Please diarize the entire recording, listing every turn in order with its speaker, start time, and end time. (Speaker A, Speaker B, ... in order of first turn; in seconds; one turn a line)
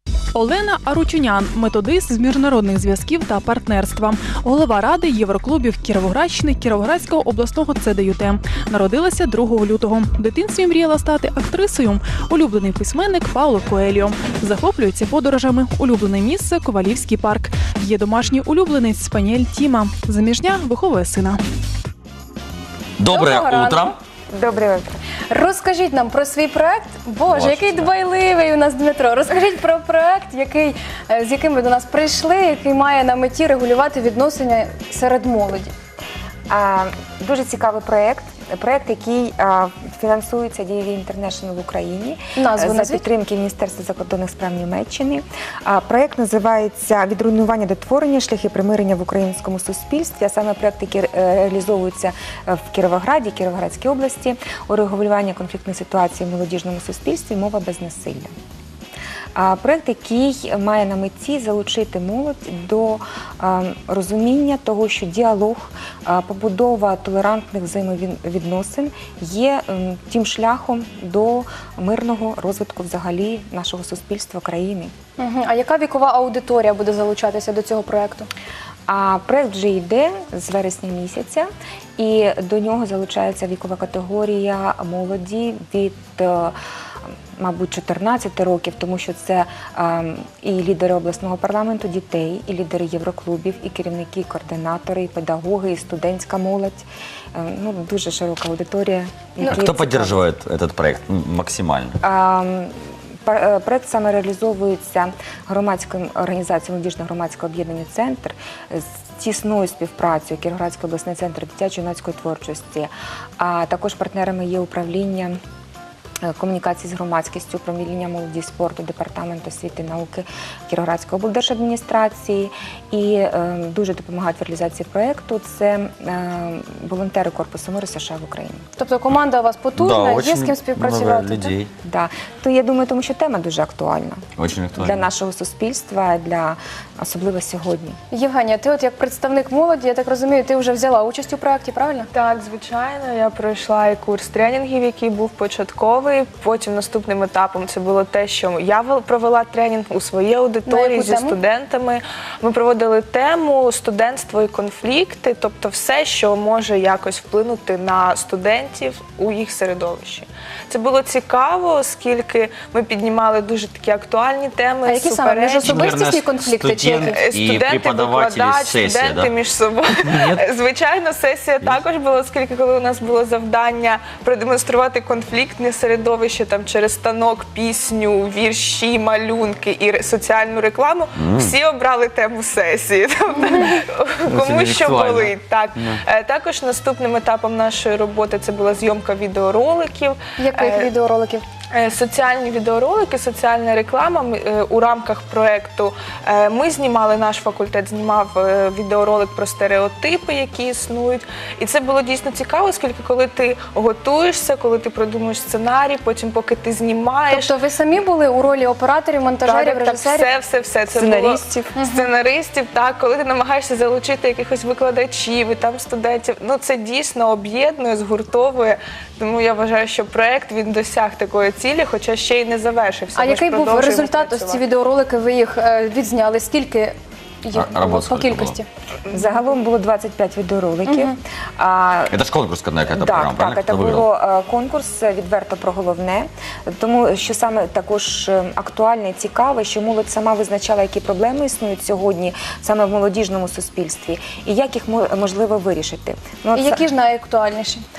Speaker A: 0.3-21.4
Speaker B: 23.0-23.9
Speaker C: 23.1-23.9
Speaker D: 24.3-25.0
Speaker C: 25.3-35.7
Speaker B: 27.3-27.9
Speaker D: 36.5-58.3
Speaker C: 42.4-43.0
Speaker D: 59.4-74.9
Speaker C: 75.2-78.3
Speaker D: 78.9-86.5
Speaker D: 87.4-100.3
Speaker B: 99.4-102.0
Speaker D: 102.0-102.7
Speaker D: 103.2-115.4
Speaker D: 116.2-128.6
Speaker C: 128.8-131.5
Speaker B: 129.8-131.7
Speaker D: 131.8-134.2
Speaker B: 134.4-135.1
Speaker D: 134.8-138.0
Speaker C: 138.1-142.1
Speaker E: 142.1-165.9
Speaker C: 150.7-151.4
Speaker C: 164.8-167.2
Speaker B: 165.6-169.3
Speaker E: 167.1-190.9
Speaker B: 170.0-170.4
Speaker B: 181.2-181.6
Speaker C: 183.3-183.7
Speaker B: 184.3-186.0
Speaker C: 190.4-191.4
Speaker E: 191.7-207.5
Speaker C: 207.3-210.3
Speaker E: 209.4-224.6
Speaker D: 211.0-211.4
Speaker C: 211.7-212.1
Speaker C: 223.1-228.7
Speaker B: 227.5-228.6
Speaker D: 229.1-232.2
Speaker C: 230.9-231.2
Speaker B: 232.1-234.0
Speaker D: 232.9-246.8
Speaker C: 246.5-247.8